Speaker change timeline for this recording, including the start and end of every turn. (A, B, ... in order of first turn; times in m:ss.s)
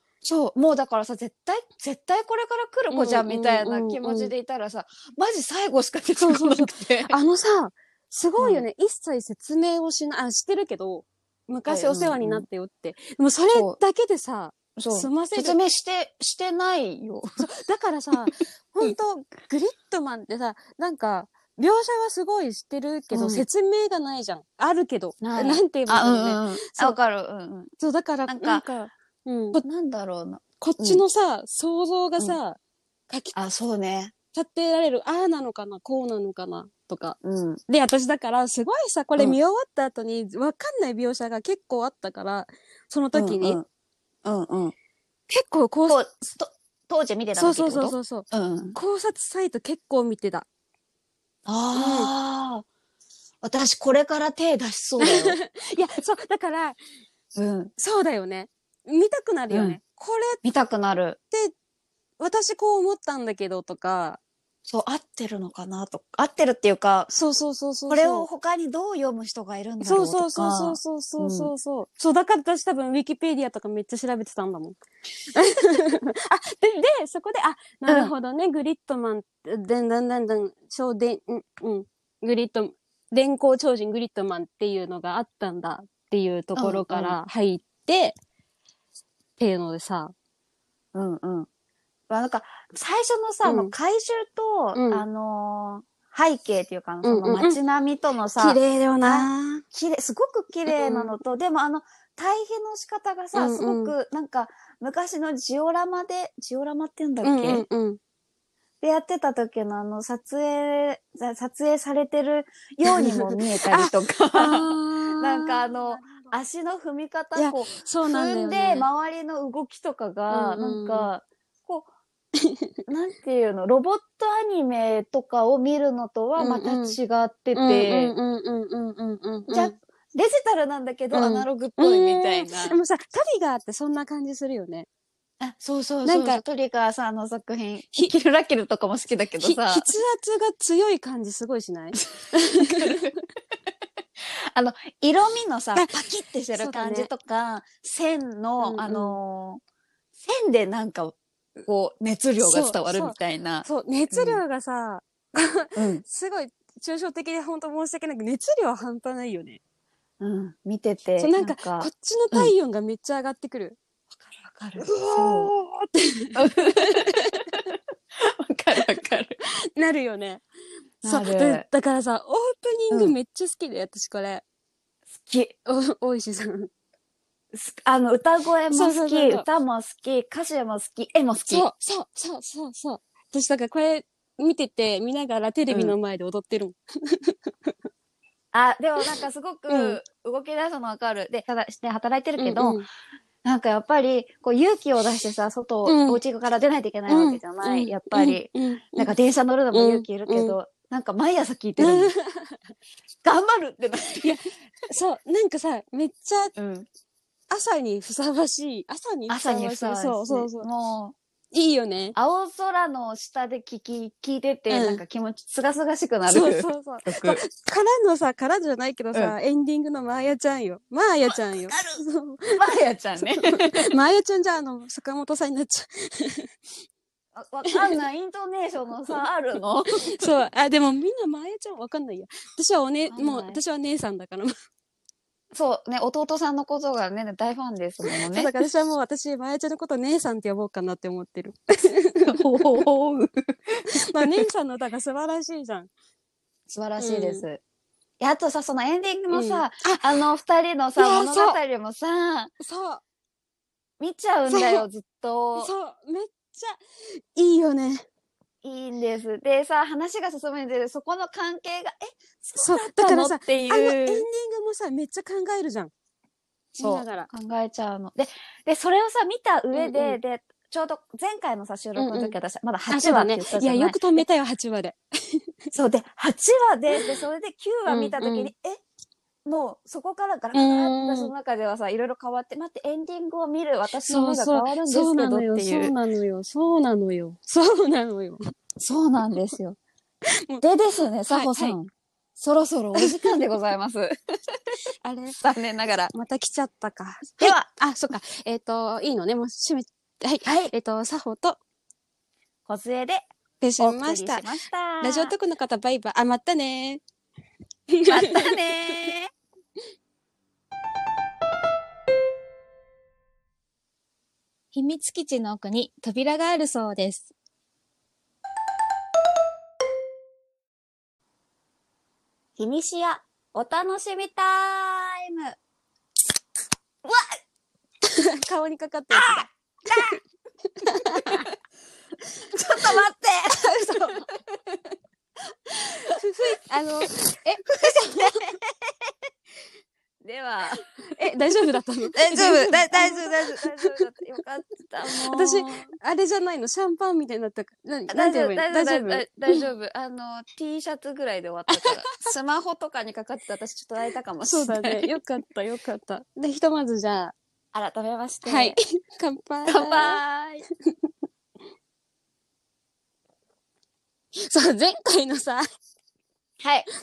0:00.2-0:07.1 A
0:02.9-0:04.3 B
0:06.2-0:15.6 B
0:08.4-0:08.6 A
0:11.7-0:12.4 A
0:14.8-0:17.4 A
0:17.4-0:27.0 B
0:23.1-0:23.4 A
0:25.2-0:27.7 A
0:27.8-0:28.7 B
0:28.3-0:28.9 A
0:29.2-0:29.6 B
0:29.6-0:31.0 A
0:30.6-0:32.6 B
0:33.1-0:33.4 B
0:33.3-0:34.1 A
0:34.3-0:37.2 B
0:37.2-0:37.6 A
0:37.7-0:43.6 B
0:43.1-0:43.6 A
0:44.2-0:44.7 A
0:45.3-0:46.0 B
0:45.9-0:48.8 A
0:47.4-0:50.5 B
0:51.4-0:52.6 A
0:51.7-0:52.1 B
0:53.4-0:55.4 A
0:55.0-0:56.8 B
0:57.3-0:57.7 A
0:57.8-1:00.4 B
0:59.5-0:59.8 A
1:00.4-1:01.2 A
1:02.2-1:04.2 B
1:04.7-1:07.1 A
1:07.1-1:08.3 B
1:07.9-1:11.5 A
1:09.8-1:14.8 B
1:15.3-1:28.2 B
1:17.9-1:18.1 A
1:26.6-1:27.2 A
1:29.4-1:30.1 B
1:30.9-1:31.5 A
1:32.1-1:47.6 A
1:33.4-1:33.7 B
1:34.7-1:35.0 B
1:37.0-1:37.6 B
1:38.4-1:39.6 B
1:40.7-1:41.2 B
1:43.3-1:43.9 B
1:47.2-1:48.0 B
1:48.8-2:01.9 A
1:52.9-1:56.4 B
1:57.3-1:58.9 B
2:00.3-2:01.1 B
2:02.9-2:08.1 A
2:06.4-2:07.0 B
2:07.6-2:09.8 B
2:09.5-2:12.8 A
2:11.1-2:14.9 B
2:15.4-2:19.9 A
2:16.0-2:16.4 B
2:19.4-2:23.1 B
2:22.6-2:23.1 A
2:24.5-2:29.6 A
2:26.5-2:27.1 B
2:28.6-2:29.2 B
2:30.2-2:34.4 A
2:32.4-2:39.6 B
2:35.8-2:36.0 A
2:40.2-2:42.5 A
2:41.2-2:43.8 B
2:44.2-2:45.5 A
2:44.8-2:47.4 B
2:46.4-2:47.6 A
2:48.2-2:49.4 A
2:49.4-2:50.4 B
2:51.0-2:51.6 A
2:51.0-2:54.4 B
2:52.9-2:53.2 A
2:55.1-2:55.5 A
2:55.6-2:56.7 B
2:57.5-3:01.7 A
2:58.7-2:59.5 B
3:01.5-3:07.7 B
3:05.7-3:06.0 A
3:08.5-3:12.8 A
3:09.7-3:10.0 B
3:12.4-3:12.8 B
3:13.4-3:22.1 A
3:15.8-3:16.2 B
3:17.1-3:19.1 B
3:19.7-3:20.6 B
3:21.8-3:22.6 B
3:23.2-3:24.4 A
3:24.1-3:26.5 B
3:26.6-3:26.9 A
3:27.5-3:30.7 B
3:29.3-3:31.1 A
3:31.5-3:32.2 B
3:32.2-3:37.4 A
3:34.7-3:35.0 B
3:36.3-3:42.6 B
3:41.3-3:42.0 A
3:42.6-3:43.9 A
3:43.2-3:46.5 B
3:47.3-3:50.3 A
3:47.7-3:48.0 B
3:50.2-3:54.5 B
3:53.1-3:53.6 A
3:55.5-3:58.5 A
3:58.3-4:02.4 B
4:02.3-4:04.4 A
4:03.9-4:05.9 B
4:06.7-4:07.6 A
4:07.0-4:07.4 B
4:08.2-4:12.5 A
4:09.3-4:10.1 B
4:11.0-4:11.6 B
4:12.6-4:13.0 B
4:14.0-4:15.7 A
4:14.5-4:14.9 B
4:15.6-4:16.8 B
4:17.4-4:18.0 B
4:18.6-4:24.2 A
4:22.6-4:25.9 B
4:26.8-4:27.3 B
4:26.8-4:34.2 A
4:29.7-4:30.2 B
4:32.0-4:32.4 B
4:32.9-4:35.4 B
4:35.7-4:38.8 A
4:37.9-4:38.5 B
4:39.5-4:45.9 A
4:40.5-4:41.3 B
4:44.1-4:48.4 B
4:48.8-4:49.8 A
4:50.6-4:54.8 A
4:51.3-4:51.8 B
4:53.0-4:53.3 B
4:55.0-4:55.4 B
4:55.4-4:56.1 A
4:56.1-5:01.6 B
4:57.4-4:57.7 A
5:00.4-5:00.7 A
5:02.6-5:03.2 A
5:03.6-5:04.5 B
5:03.8-5:05.3 A
5:05.0-5:07.0 B
5:07.9-5:08.5 B
5:08.1-5:09.3 A
5:14.7-5:17.3 C
5:22.6-5:25.6 A
5:27.0-5:27.4 A
5:28.0-5:30.1 B
5:29.1-5:30.2 A
5:30.8-5:31.5 B
5:30.8-5:31.5 A
5:32.5-5:32.9 B
5:32.5-5:34.8 A
5:33.6-5:34.2 B
5:36.0-5:38.5 B
5:37.8-5:39.1 A
5:40.2-5:41.2 A
5:41.1-5:43.9 B
5:42.1-5:45.9 A
5:45.1-5:49.6 B
5:48.1-5:55.1 A
5:51.7-5:52.3 B
5:54.4-5:57.4 B
5:57.7-5:58.8 A
5:58.4-6:00.2 B
5:59.7-6:00.6 A
6:04.4-6:05.6 B
6:06.6-6:06.9 A